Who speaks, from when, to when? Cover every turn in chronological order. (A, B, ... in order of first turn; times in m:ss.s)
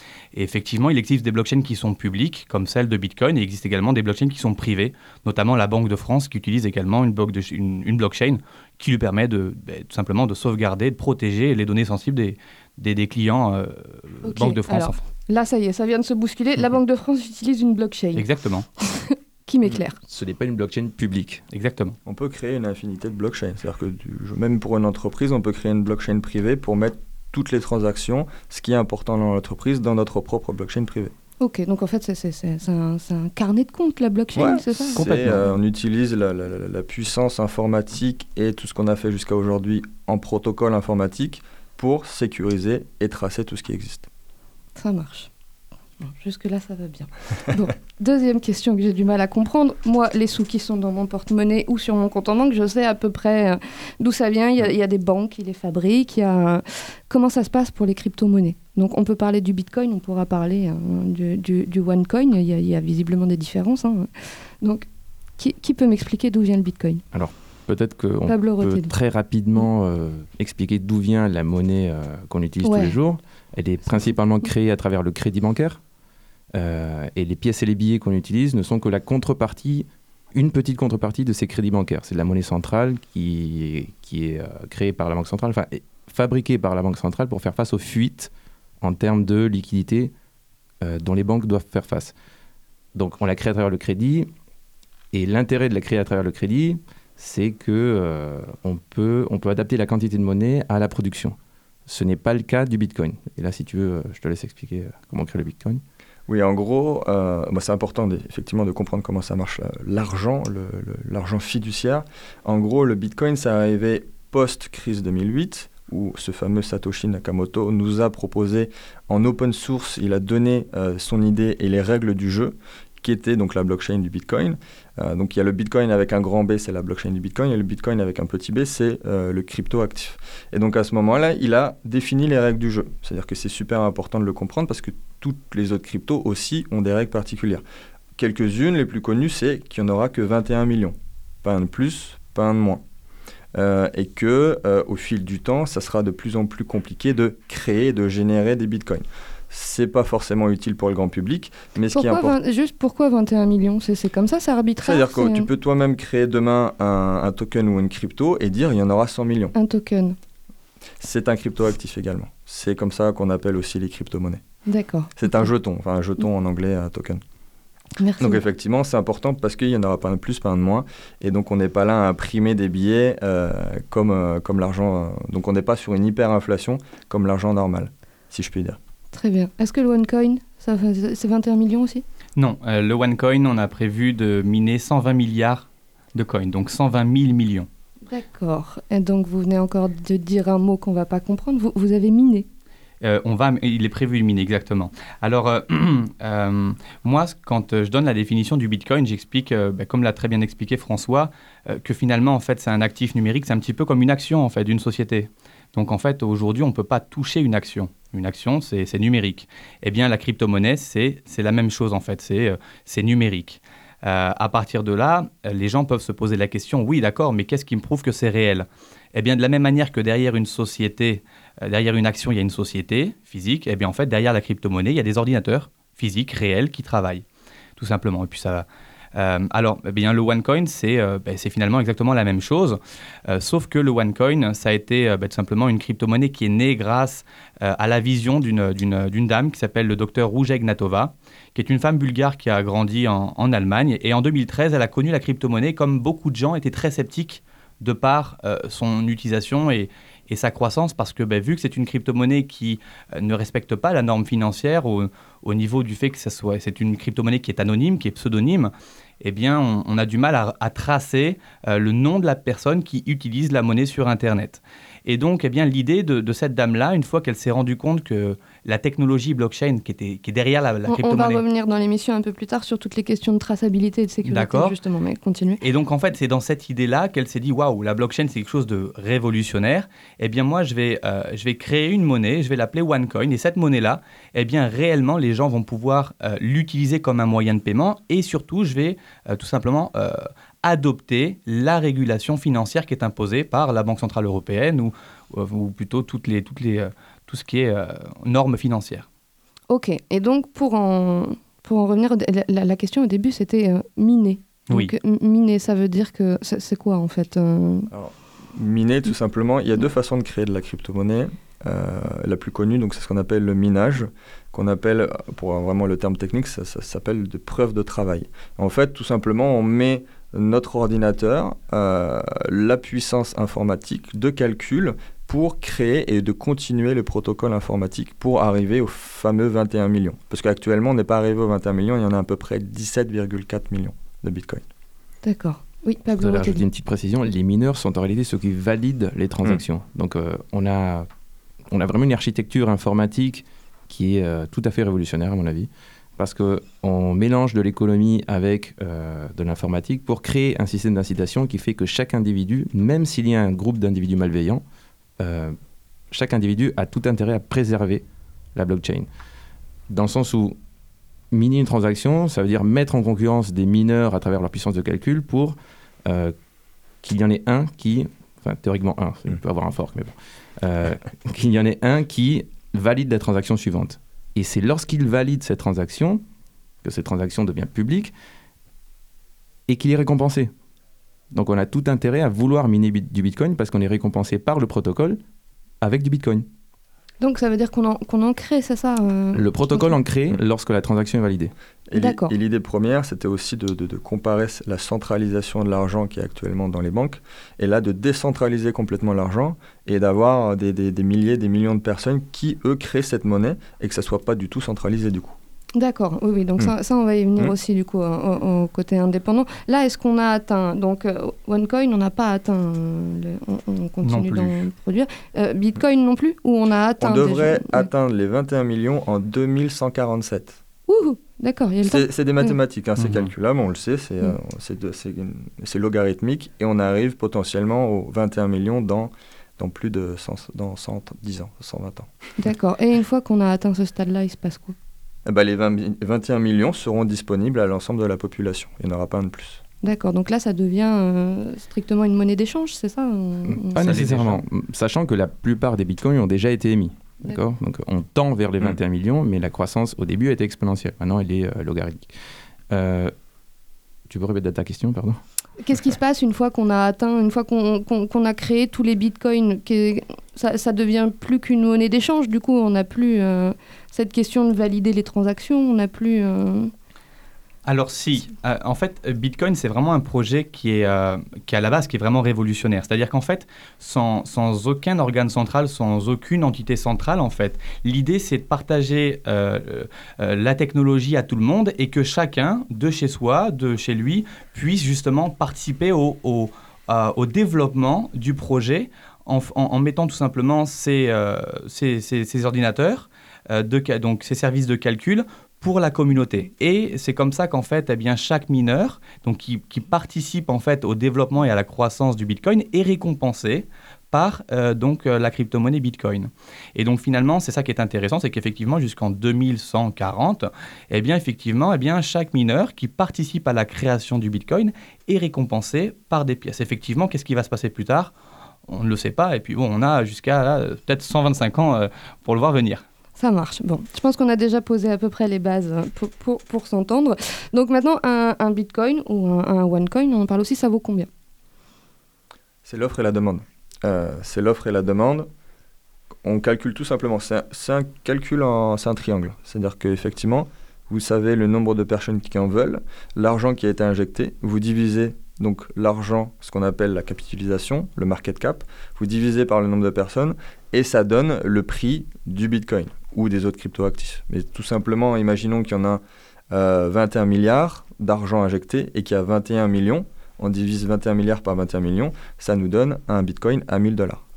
0:00.3-0:15.0 A
0:14.2-0:18.2 B
0:18.2-0:18.7 A
0:18.8-0:20.0 B
0:20.1-0:21.4 C
0:21.5-0:22.0 A
0:22.0-0:31.1 D
0:31.4-0:35.5 B
0:34.3-0:44.1 D
0:44.8-0:45.3 B
0:46.0-1:04.1 B
1:04.6-1:07.0 B
1:07.1-1:15.8 C
1:08.3-1:08.9 B
1:12.6-1:12.9 B
1:16.5-1:30.1 C
1:30.8-1:32.1 C
1:32.9-1:34.3 C
1:35.1-1:41.4 C
1:41.9-1:45.8 C
1:46.3-2:17.6 D
2:18.2-2:22.8 D
2:23.5-2:32.4 D
2:31.9-2:35.5 B
2:34.8-2:39.5 D
2:39.5-2:40.2 B
2:41.0-2:44.4 D
2:44.7-2:45.5 B
2:45.2-2:47.2 D
2:48.0-2:48.4 B
2:48.2-2:58.8 D
2:59.1-3:02.0 B
3:02.4-3:07.7 A
3:08.1-3:12.5 B
3:13.0-3:47.2 A
3:47.8-4:31.4 A
4:30.9-4:35.6 B
4:34.2-4:34.7 A
4:35.6-4:59.1 A
4:59.7-5:07.9 B
5:07.9-5:34.6 D
5:35.2-5:36.6 B
5:36.2-5:41.1 C
5:41.7-5:54.6 C
5:55.2-5:55.6 C
5:56.1-5:59.1 C
5:59.9-6:00.6 C
6:01.3-6:06.3 C
6:07.0-6:16.2 C
6:16.8-6:18.1 C
6:19.7-6:20.5 C
6:21.3-6:25.2 C
6:25.8-6:26.5 C
6:27.2-6:29.9 B
6:29.3-6:31.5 C
6:31.9-6:45.4 D
6:31.9-6:32.3 B
6:45.7-6:57.8 B
6:54.0-6:54.6 A
6:57.0-7:00.6 D
7:00.9-7:02.6 B
7:01.8-7:12.1 D
7:03.0-7:03.3 A
7:12.4-7:14.7 B
7:15.2-7:19.6 D
7:19.8-7:23.8 B
7:23.5-7:32.1 C
7:23.8-7:24.4 A
7:32.7-7:33.1 C
7:34.1-7:35.2 C
7:35.6-7:46.7 B
7:47.6-8:38.1 A
8:38.7-8:42.8 A
8:43.2-8:51.1 B
8:52.6-8:55.3 D
8:56.2-9:24.2 D